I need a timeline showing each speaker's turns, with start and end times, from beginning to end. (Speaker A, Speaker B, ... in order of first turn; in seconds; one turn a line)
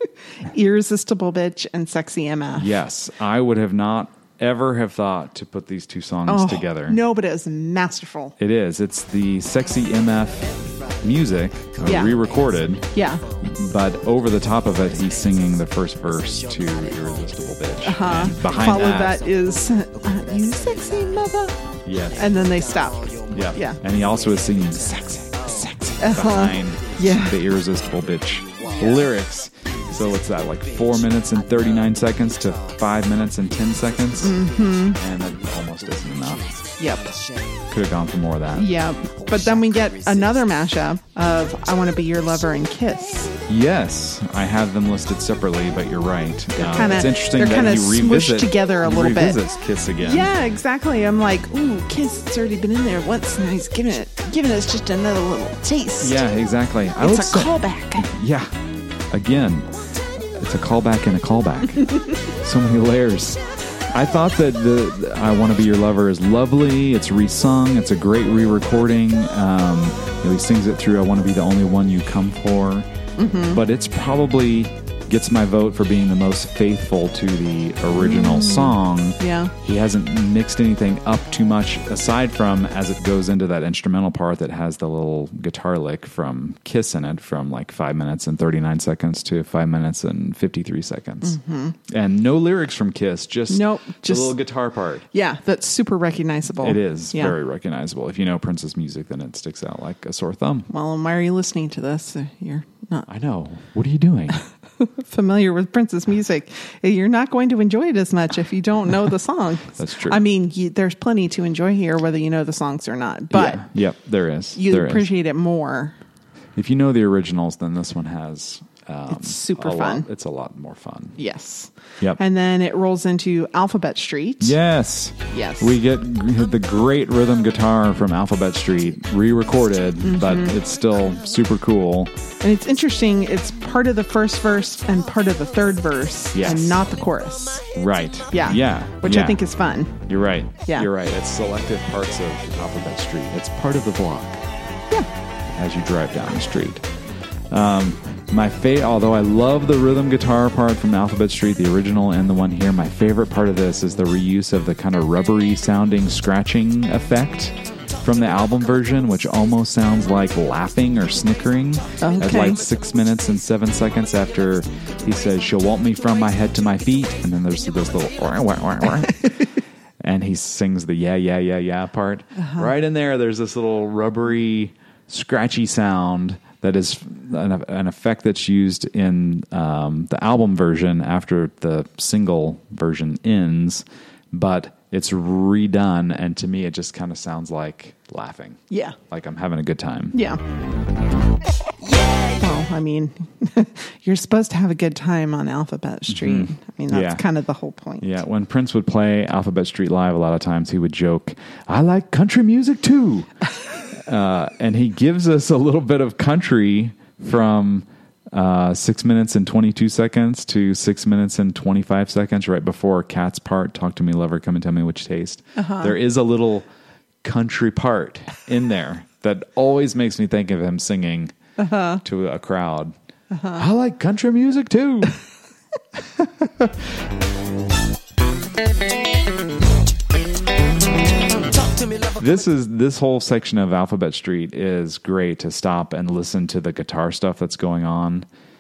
Speaker A: 0.4-2.7
Speaker B: 2.5-7.0
Speaker A: 6.3-8.3
Speaker B: 8.4-19.2
Speaker A: 11.8-12.2
Speaker A: 12.9-13.2
Speaker A: 17.8-21.6
Speaker B: 21.8-22.4
Speaker A: 22.1-23.8
Speaker B: 23.3-36.7
Speaker A: 25.6-27.4
Speaker A: 34.2-35.0
Speaker A: 36.8-37.2
Speaker B: 37.7-38.7
Speaker A: 38.5-43.3
Speaker B: 43.5-50.3
Speaker A: 46.5-49.4
Speaker A: 50.0-56.2
Speaker B: 56.0-58.5
Speaker A: 57.0-58.1
Speaker B: 59.1-59.7
Speaker B: 60.4-72.9
Speaker A: 73.2-73.6
Speaker B: 73.5-95.0
Speaker A: 78.0-79.5
Speaker A: 91.2-91.8
Speaker A: 93.5-94.4
Speaker A: 95.1-97.3
Speaker B: 96.6-100.7
Speaker A: 100.7-103.1
Speaker B: 103.0-104.4
Speaker A: 104.8-113.7
Speaker B: 109.7-110.2
Speaker B: 113.3-115.1
Speaker A: 114.5-115.9
Speaker B: 116.5-121.2
Speaker A: 119.1-120.0
Speaker A: 121.2-124.5
Speaker B: 124.4-132.1
Speaker A: 125.3-125.8
Speaker A: 130.0-130.6
Speaker A: 132.4-137.6
Speaker B: 136.3-136.8
Speaker B: 137.7-139.4
Speaker A: 138.3-139.9
Speaker B: 140.1-144.4
Speaker B: 145.5-146.9
Speaker B: 147.5-169.3
Speaker A: 162.0-162.6
Speaker B: 170.0-190.2
Speaker A: 172.3-172.7
Speaker A: 188.7-188.9
Speaker A: 190.1-190.4
Speaker A: 192.2-198.2
Speaker B: 196.1-197.2
Speaker B: 198.0-203.3
Speaker B: 203.9-216.7
Speaker A: 215.6-215.9
Speaker B: 217.2-221.3
Speaker A: 221.6-222.0
Speaker B: 222.0-222.9
Speaker A: 223.3-223.6
Speaker B: 223.5-225.2
Speaker B: 226.2-226.9
Speaker B: 232.2-238.3